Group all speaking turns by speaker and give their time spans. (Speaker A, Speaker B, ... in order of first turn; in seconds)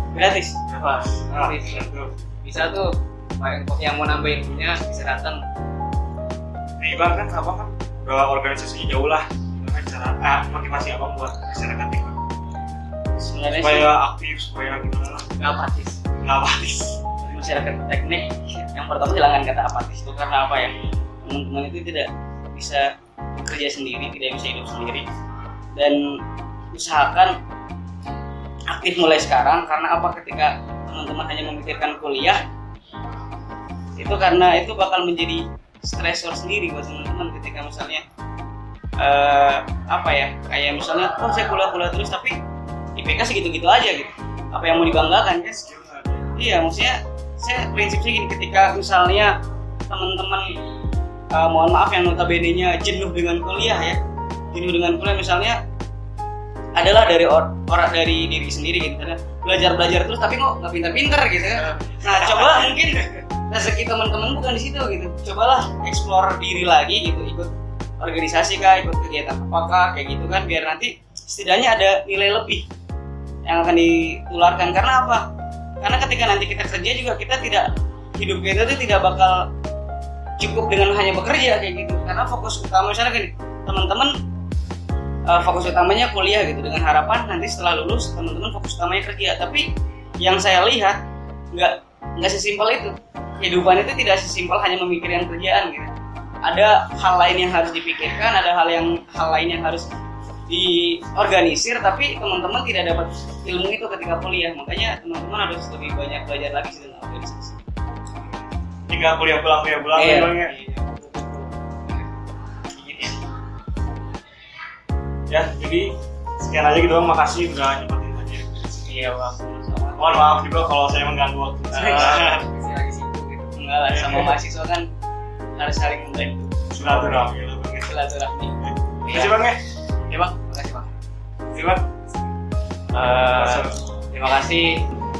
Speaker A: 0.1-0.6, 13.2-13.9, 17.2-25.1, 25.8-26.1, 26.7-27.4, 28.7-32.4, 34.0-38.0, 39.0-42.4, 43.0-45.6, 46.3-49.3, 49.9-50.5, 51.3-54.0, 54.5-55.6, 56.7-72.7, 73.5-75.2, 75.8-79.5, 80.4-84.1, 85.2-89.7, 90.2-91.0, 91.5-95.9, 96.4-99.9, 100.5-107.6, 123.5-124.8, 125.5-126.7, 127.8-128.5
Speaker B: 0.7-2.1, 6.8-12.2, 13.5-15.3, 16.2-17.0, 45.5-46.4, 108.9-110.5, 115.3-118.9, 120.0-122.5, 123.9-124.3, 126.7-128.0, 128.6-129.6, 131.5-131.8, 133.3-133.8
Speaker C: 0.8-1.9, 2.4-5.4, 15.4-16.0, 61.6-62.0, 109.9-111.5, 112.8-113.2, 118.8-120.1, 121.7-123.6, 129.0-129.4, 130.1-130.9, 132.9-134.8